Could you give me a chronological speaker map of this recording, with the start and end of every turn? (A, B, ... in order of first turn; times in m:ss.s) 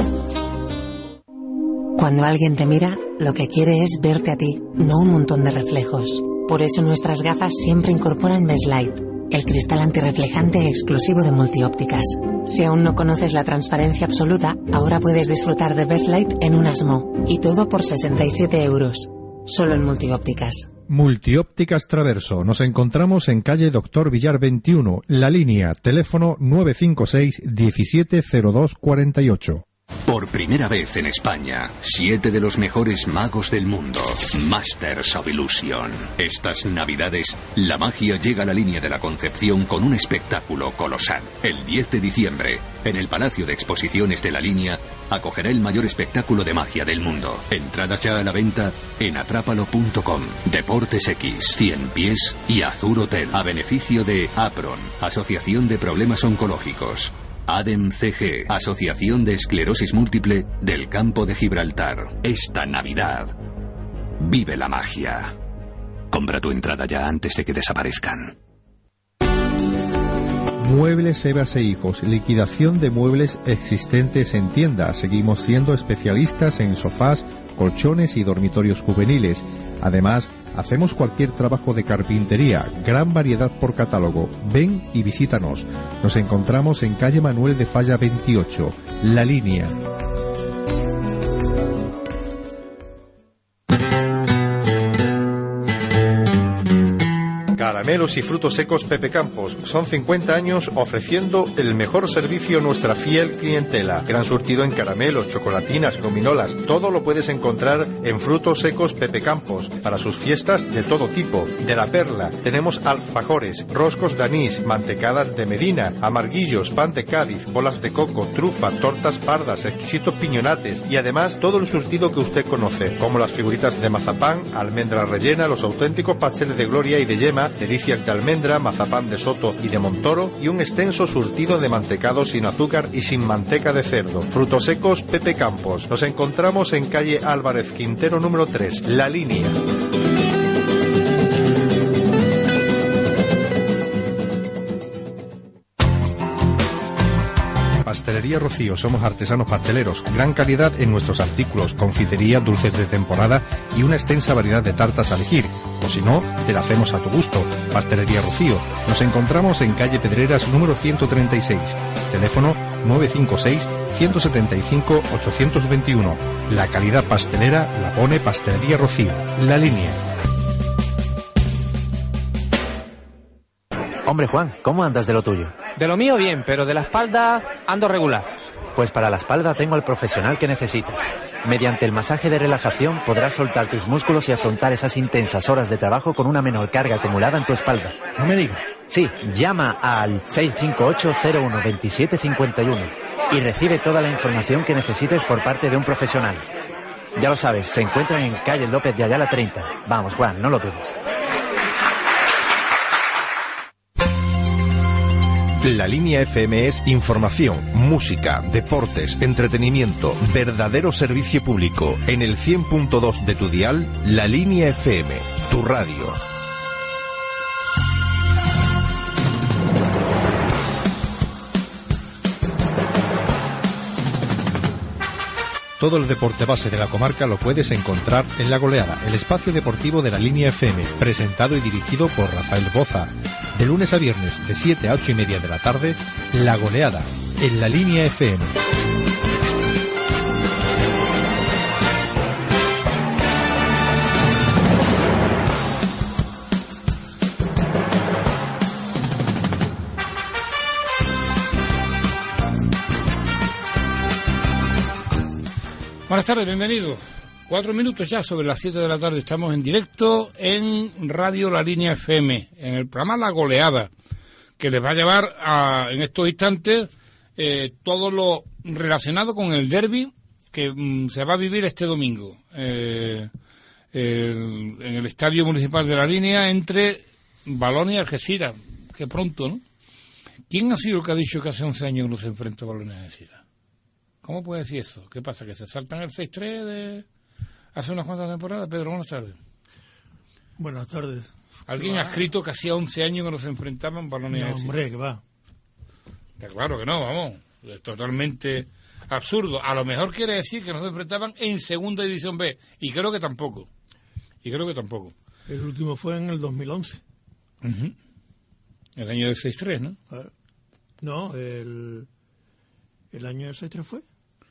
0:01.9-0:20.7 A
0:20.9-0:29.6 B
0:30.1-1:03.4 C
1:04.2-1:05.4 C
1:06.1-1:08.4 C
1:10.6-1:29.8 B
1:37.5-2:19.6 B
2:27.8-2:50.0 B
2:54.0-3:16.5 D
3:17.2-3:21.0 D
3:25.6-3:36.2 B
3:45.8-3:58.6 B
4:16.1-4:23.9 E
4:24.6-4:33.3 E
4:33.9-4:39.6 E
4:40.5-4:43.4 E
4:44.2-4:47.0 E
4:47.7-4:49.4 E
4:50.6-4:52.3 F
4:51.7-4:54.7 E
4:54.3-4:55.2 F
4:56.4-5:03.7 E
5:04.4-5:05.1 E
5:05.5-5:07.0 F
5:07.6-5:08.0 E
5:09.0-5:10.0 E
5:11.0-5:12.1 F
5:13.1-5:14.0 F